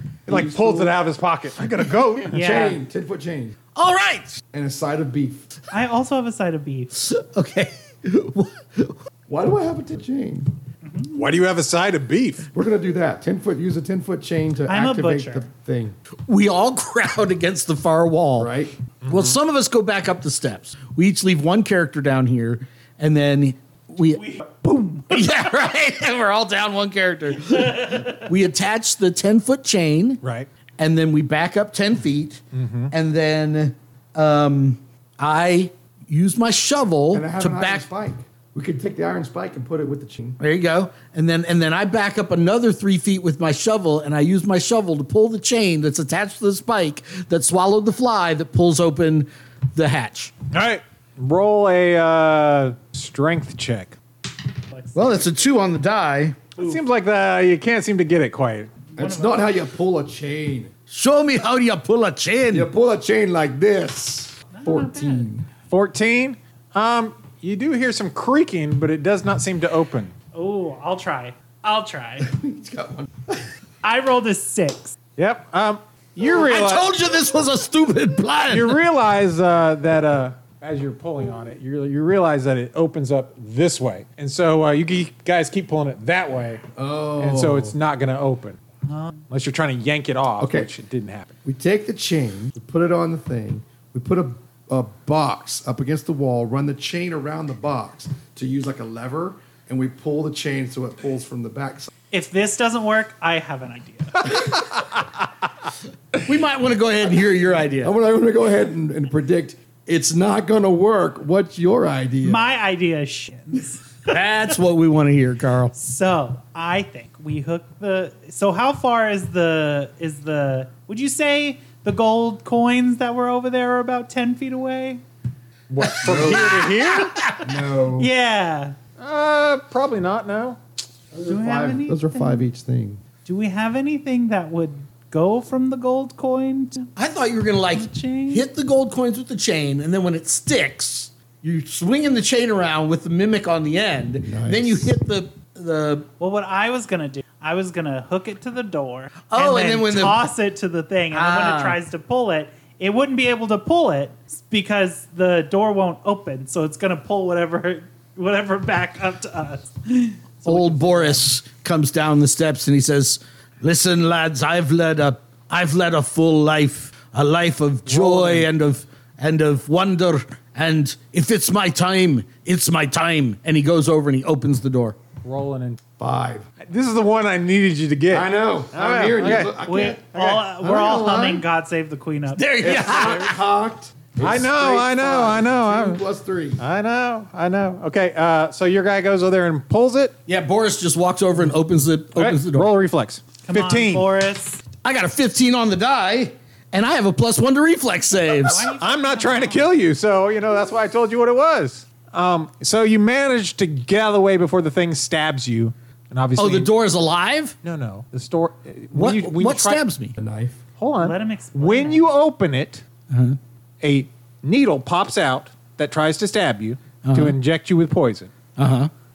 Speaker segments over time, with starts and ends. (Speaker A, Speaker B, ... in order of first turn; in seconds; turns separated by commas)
Speaker A: 0.3-0.9, Speaker B: 0.3-2.5, Speaker A: 2.2-3.5, Speaker C: 2.3-2.8, Speaker D: 3.8-4.4, Speaker A: 4.5-5.5, Speaker C: 5.7-6.9, Speaker D: 6.9-9.0, Speaker A: 9.3-10.6, Speaker C: 10.8-11.2, Speaker B: 11.1-12.5, Speaker A: 12.5-16.0, Speaker C: 14.7-15.5, Speaker D: 16.3-18.5, Speaker A: 18.4-18.8, Speaker B: 19.0-19.4, Speaker D: 19.1-24.2, Speaker C: 24.1-25.3, Speaker D: 25.1-30.2, Speaker C: 27.4-28.3, Speaker B: 30.2-30.5, Speaker D: 30.8-37.8, Speaker B: 32.5-32.9, Speaker A: 37.1-40.4, Speaker D: 40.4-50.3, Speaker B: 50.5-54.0, Speaker C: 54.7-55.5, Speaker D: 55.0-56.4, Speaker B: 56.6-58.7, Speaker C: 58.9-59.5, Speaker A: 59.0-60.7, Speaker D: 60.9-62.7, Speaker A: 62.5-65.5, Speaker C: 64.5-65.3, Speaker B: 65.7-70.1, Speaker C: 70.3-72.3, Speaker A: 72.2-73.5, Speaker C: 73.8-75.0, Speaker B: 75.2-76.9, Speaker D: 76.2-78.8, Speaker B: 78.5-86.6, Speaker A: 86.7-87.8, Speaker B: 87.2-88.6, Speaker C: 88.9-89.3, Speaker B: 89.3-91.3, Speaker A: 90.4-90.7, Speaker A: 91.5-101.9, Speaker C: 102.1-104.4, Speaker D: 106.2-108.0, Speaker A: 107.8-112.5, Speaker C: 112.2-114.2, Speaker D: 114.1-115.7, Speaker C: 115.7-125.0, Speaker B: 125.7-127.2, Speaker A: 126.0-126.7, Speaker C: 126.1-128.8, Speaker A: 127.4-128.1, Speaker B: 129.0-130.6, Speaker A: 131.1-133.0, Speaker C: 131.2-132.5, Speaker C: 133.2-136.9, Speaker D: 137.0-146.1, Speaker C: 137.7-138.5, Speaker A: 144.2-145.0, Speaker C: 146.2-161.2, Speaker D: 149.3-150.3, Speaker D: 151.1-151.8, Speaker D: 160.4-175.0, Speaker B: 167.9-168.5, Speaker B: 175.2-175.8, Speaker A: 176.0-176.5, Speaker B: 176.6-179.5, Speaker A: 178.1-181.4, Speaker C: 179.7-183.1, Speaker B: 180.1-180.5, Speaker D: 182.3-183.4, Speaker A: 182.6-186.6, Speaker B: 184.2-186.0, Speaker B: 186.6-190.2, Speaker D: 190.3-192.7, Speaker B: 192.2-194.1, Speaker C: 193.4-194.6, Speaker D: 194.8-198.7, Speaker C: 198.2-199.7, Speaker B: 198.8-206.7, Speaker D: 206.4-207.6, Speaker B: 207.6-209.8, Speaker D: 208.9-210.2, Speaker A: 210.2-210.6, Speaker B: 210.8-212.8, Speaker C: 211.0-212.0, Speaker D: 213.1-213.4, Speaker B: 213.8-218.3, Speaker D: 217.1-217.4, Speaker D: 218.6-218.9